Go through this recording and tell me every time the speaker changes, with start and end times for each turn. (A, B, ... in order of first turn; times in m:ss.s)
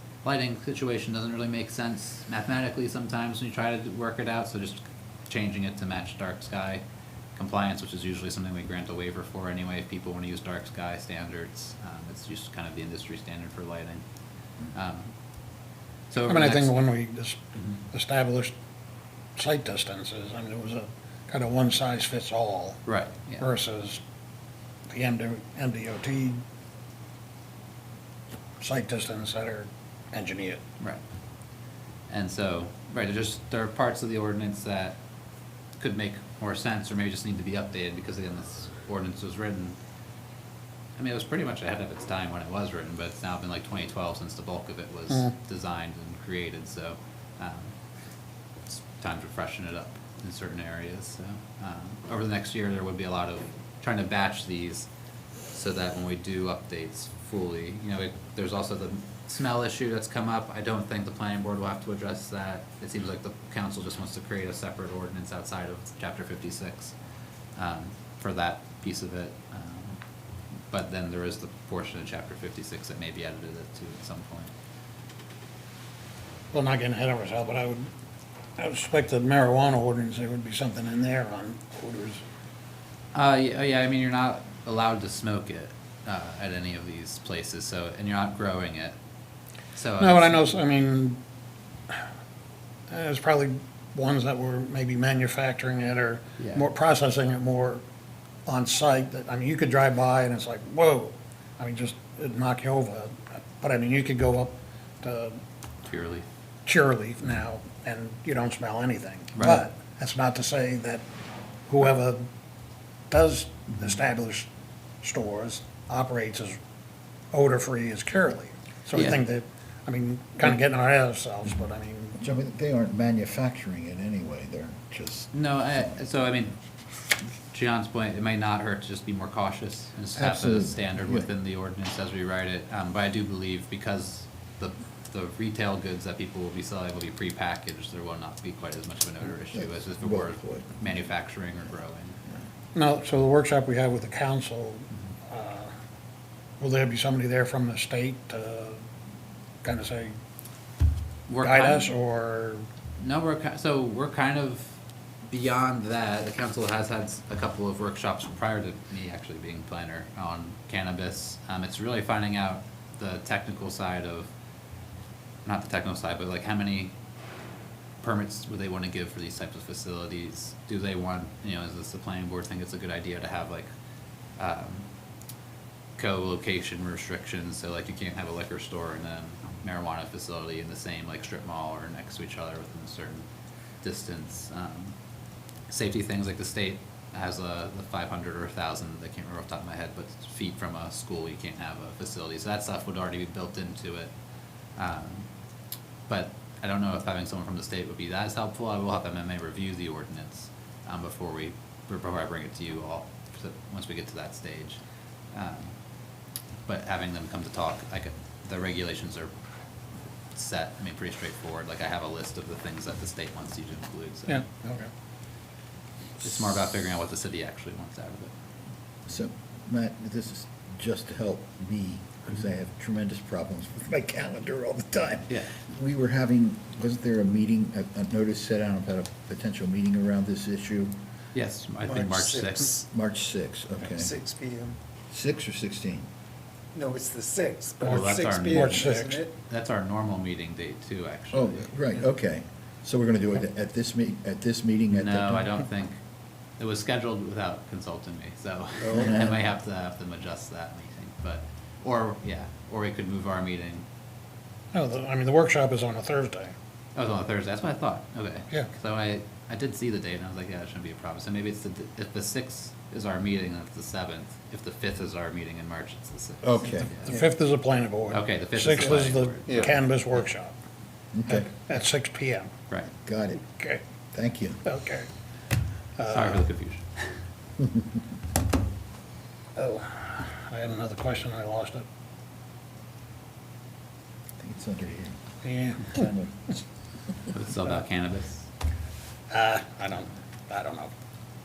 0:00.2-0:06.8 A
0:07.4-0:14.0 A
0:14.7-0:15.1 A
0:16.1-0:16.7 A
0:16.2-0:18.5 B
0:19.4-0:22.8 B
0:22.8-0:23.4 A
0:23.4-0:24.0 B
0:24.9-0:26.4 B
0:28.6-0:30.6 B
0:32.1-0:35.0 A
0:35.8-0:39.8 A
0:41.0-0:47.7 A
0:48.7-0:54.9 A
0:55.5-1:06.9 A
1:07.6-1:10.0 A
1:10.7-1:14.5 A
1:16.5-1:17.9 B
1:18.6-1:22.2 B
1:23.1-1:29.0 A
1:29.7-1:30.4 A
1:30.0-1:31.2 B
1:32.9-1:37.8 B
1:38.4-1:45.4 B
1:45.8-1:46.2 A
1:46.6-1:51.0 B
1:49.4-1:49.6 A
1:51.7-1:52.2 B
1:53.1-1:54.5 B
1:55.0-1:56.6 B
1:57.3-2:02.2 B
1:58.9-1:59.2 A
2:02.2-2:06.0 C
2:05.3-2:06.6 A
2:07.5-2:22.2 A
2:10.2-2:11.2 C
2:19.5-2:20.8 C
2:22.7-2:25.7 B
2:26.6-2:28.8 B
2:29.6-2:30.1 B
2:31.3-2:31.9 A
2:31.4-2:32.6 B
2:33.0-2:34.8 A
2:35.3-2:44.3 A
2:45.4-2:46.9 A
2:48.0-2:53.7 A
2:54.4-2:54.9 A
2:56.0-3:03.3 A
3:03.8-3:04.9 A
3:05.7-3:14.1 A
3:14.8-3:15.3 A
3:16.1-3:24.8 A
3:25.3-3:25.7 A
3:26.6-3:29.3 A
3:30.3-3:34.4 A
3:34.3-3:34.9 B
3:36.2-3:38.3 A
3:39.0-3:50.9 C
3:45.3-3:45.5 A
3:51.3-3:52.8 A
3:51.8-3:52.8 D
3:52.9-3:54.1 C
3:53.8-3:54.8 D
3:55.1-3:56.1 C
3:56.7-3:59.3 D
3:57.8-3:59.2 B
3:57.8-4:01.8 A
4:01.3-4:05.5 C
4:04.9-4:06.0 A
4:06.6-4:13.8 A
4:08.9-4:09.4 C
4:14.7-4:16.5 B
4:16.9-4:27.2 A
4:26.4-4:26.9 C
4:27.0-4:30.5 B
4:28.1-4:29.7 A
4:29.5-4:29.7 D
4:31.1-4:31.5 C
4:31.3-4:32.5 B
4:32.9-4:33.4 C
4:33.4-4:33.8 B
4:34.1-4:34.6 C
4:34.6-4:35.1 B
4:36.0-4:36.4 B
4:36.1-4:37.2 A
4:39.6-4:41.8 B
4:44.4-4:45.2 C
4:45.4-4:46.0 B
4:45.8-4:46.5 C
4:47.3-4:48.5 A
4:49.3-4:50.9 B